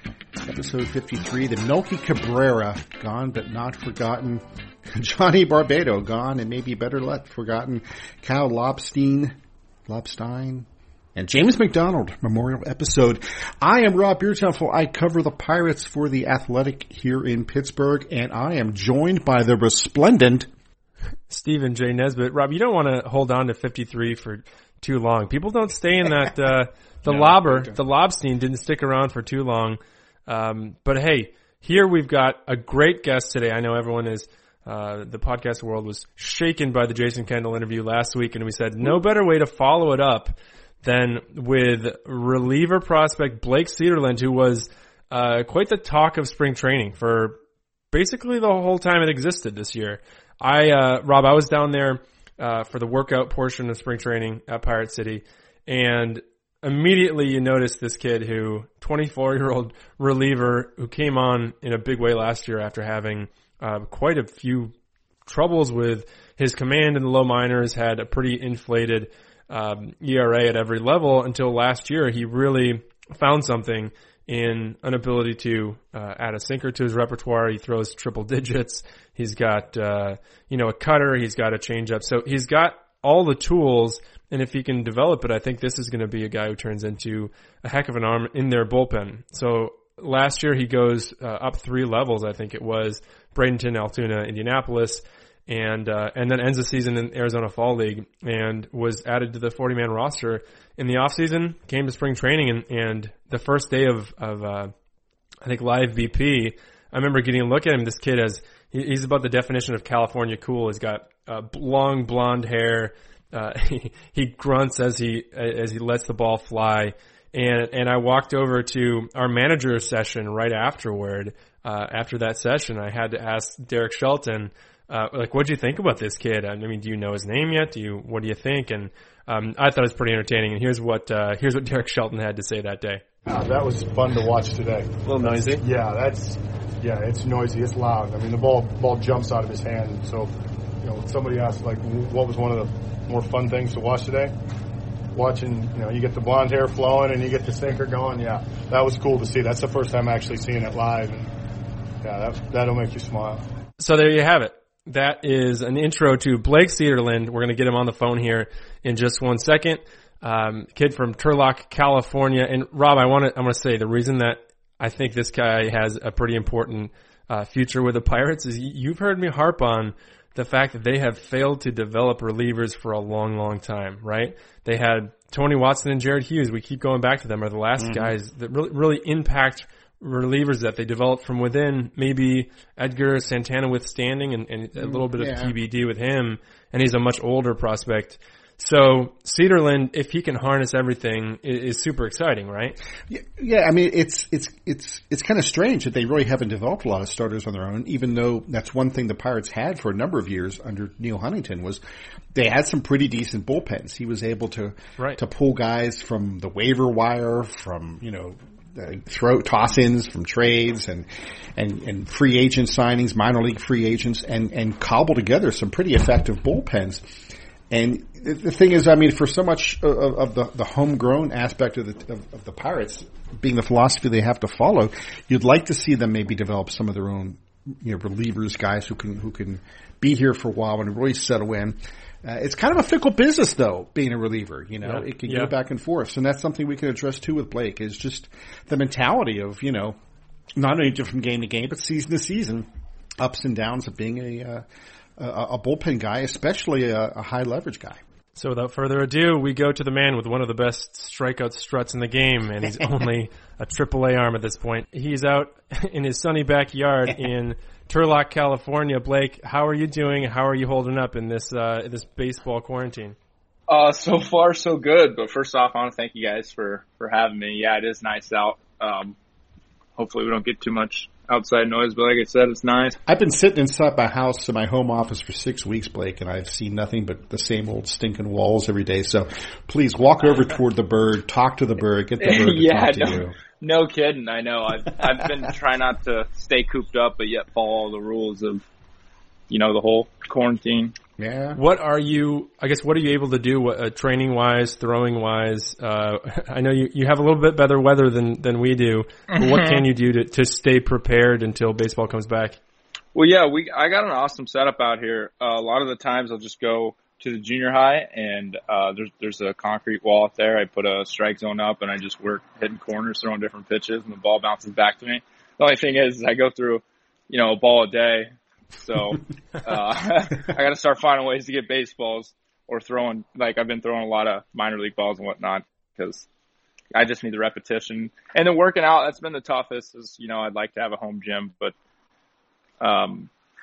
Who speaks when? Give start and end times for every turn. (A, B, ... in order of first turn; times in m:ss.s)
0:00.4-0:09.3 A
0:09.9-0:20.5 A
0:21.3-0:47.4 B
0:27.0-0:27.8 A
0:47.9-1:04.7 B
1:05.2-1:44.7 B
1:45.4-2:13.0 B
2:13.3-2:24.3 C
2:15.0-2:15.6 B
2:25.1-2:31.3 C
2:32.0-2:33.4 C
2:33.8-3:12.8 B
2:57.8-2:58.1 A
3:04.8-3:05.5 A
3:13.1-3:21.8 A
3:22.3-3:37.0 A
3:37.7-4:00.0 A
3:54.8-3:55.5 B
4:00.6-4:02.7 A
4:03.2-4:04.6 A
4:05.2-4:08.0 A
4:08.4-4:23.2 B
4:12.6-4:12.9 A
4:23.7-4:29.2 D
4:30.0-4:33.0 D
4:33.1-4:43.3 A
4:42.2-4:48.6 D
4:49.5-4:50.9 D
4:51.2-4:51.6 A
4:51.5-5:02.6 B
4:59.3-4:59.8 D
5:03.1-5:26.3 D
5:26.9-5:31.7 D
5:32.8-5:33.3 D